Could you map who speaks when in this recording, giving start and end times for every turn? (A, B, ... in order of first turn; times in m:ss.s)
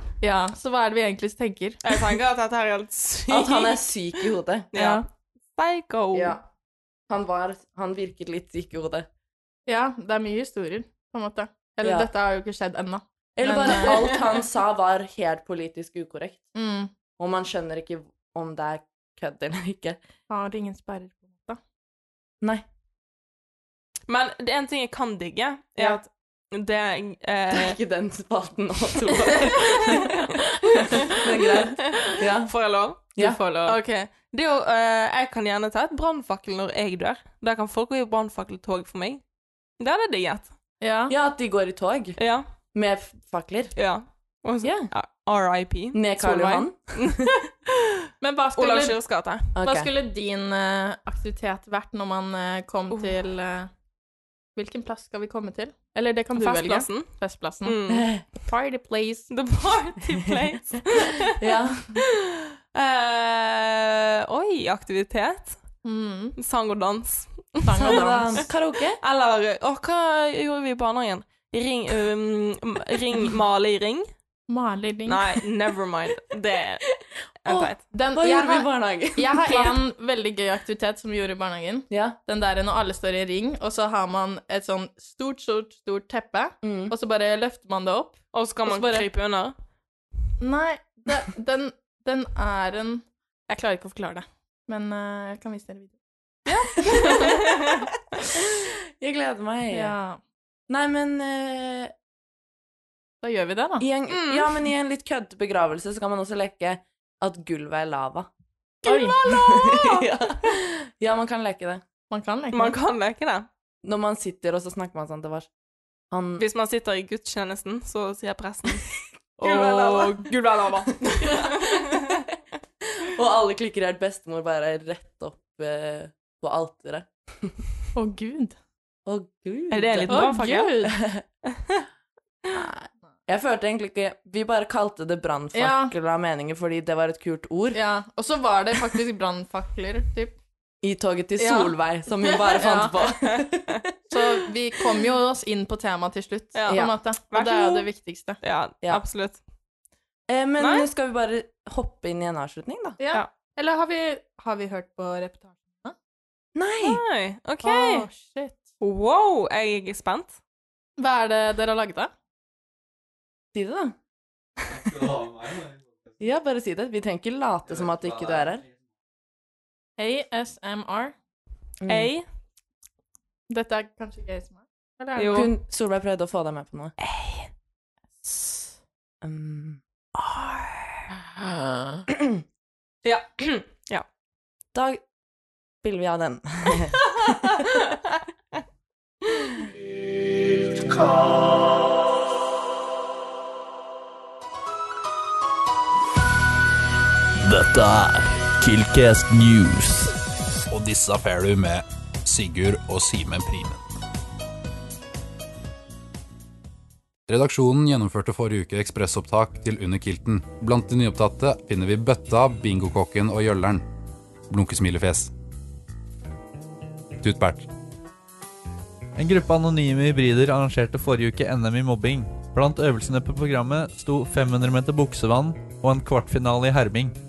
0:00.2-0:01.8 A
0:01.8-0:05.0 B
0:03.3-0:04.7 C
0:04.8-0:05.0 A
0:05.5-0:06.4 B
0:06.1-0:06.4 C
0:07.1-0:09.1 C
0:09.7-0:14.2 A
0:11.8-0:12.1 C
0:13.4-0:16.4 C
0:13.8-0:14.2 B
0:16.6-0:16.9 A
0:17.2-0:20.0 C
0:20.3-0:21.6 A
0:24.1-0:27.8 B
0:27.5-0:30.3 C
0:29.7-0:31.2 B
0:30.9-0:32.5 C
0:31.8-0:39.2 B
0:33.2-0:33.8 A
0:39.8-0:40.5 B
0:40.8-0:41.1 A
0:41.1-0:42.2 C
0:42.2-0:42.4 B
0:42.7-0:43.8 C
0:43.8-0:47.5 B
0:44.6-0:44.9 C
0:45.9-0:47.3 C
0:48.2-0:49.0 A
0:48.6-0:49.5 B
0:49.5-0:49.9 C
0:49.6-0:53.7 A
0:54.6-0:59.3 A
0:56.4-0:57.1 B
0:57.6-0:58.1 B
0:57.9-0:58.2 C
0:59.3-1:05.6 B
1:01.3-1:02.0 C
1:05.8-1:06.4 A
1:06.4-1:08.4 B
1:07.6-1:08.4 A
1:07.8-1:09.0 C
1:09.0-1:14.1 B
1:14.5-1:15.3 A
1:15.1-1:16.9 B
1:17.4-1:17.8 B
1:17.5-1:19.8 C
1:17.9-1:29.0 A
1:21.9-1:22.2 C
1:26.6-1:26.9 C
1:28.3-1:29.5 B
1:30.4-1:36.0 A
1:36.5-1:37.4 A
1:36.5-1:37.8 B
1:38.3-1:40.0 C
1:39.7-1:40.2 A
1:40.7-1:41.9 C
1:43.2-1:43.9 A
1:43.8-1:48.3 C
1:44.1-1:44.5 B
1:48.8-1:49.2 A
1:48.8-1:50.5 B
1:49.2-1:51.8 C
1:52.1-1:52.8 A
1:52.5-1:53.5 B
1:53.8-1:55.5 C
1:56.1-1:56.4 C
1:56.4-2:02.2 B
1:59.4-2:00.3 C
2:01.0-2:02.2 C
2:02.8-2:07.6 C
2:07.9-2:08.6 A
2:09.1-2:10.3 C
2:09.7-2:10.8 B
2:10.1-2:11.0 A
2:10.8-2:11.2 C
2:11.5-2:11.9 B
2:12.5-2:17.8 C
2:15.5-2:15.9 A
2:17.7-2:20.4 A
2:20.8-2:24.2 C
2:21.4-2:21.7 B
2:22.4-2:23.0 A
2:23.2-2:23.8 B
2:24.1-2:28.4 A
2:26.6-2:27.9 B
2:28.4-2:29.4 B
2:30.3-2:33.0 C
2:30.6-2:30.9 B
2:33.0-2:36.0 A
2:36.6-2:37.0 C
2:36.8-2:38.1 B
2:37.6-2:38.7 A
2:38.8-2:40.4 B
2:41.0-2:42.1 A
2:43.5-2:44.0 C
2:44.6-2:45.2 C
2:44.7-2:46.0 D
2:46.2-2:48.6 C
2:47.7-2:48.4 D
2:50.0-2:51.2 A
2:51.8-2:52.1 C
2:51.9-2:52.2 B
2:53.5-2:55.5 A
2:55.2-2:55.5 B
2:55.3-2:57.0 C
2:57.0-2:57.5 B
2:58.2-2:58.6 A
2:59.2-2:59.8 C
3:02.1-3:02.4 C
3:03.0-3:04.1 B
3:04.7-3:05.0 C
3:05.8-3:07.6 C
3:07.5-3:08.0 B
3:17.4-3:20.1 D
3:20.7-3:23.8 E
3:27.3-3:33.8 E
3:34.5-3:35.3 E
3:37.2-3:37.7 E
3:39.2-3:47.1 D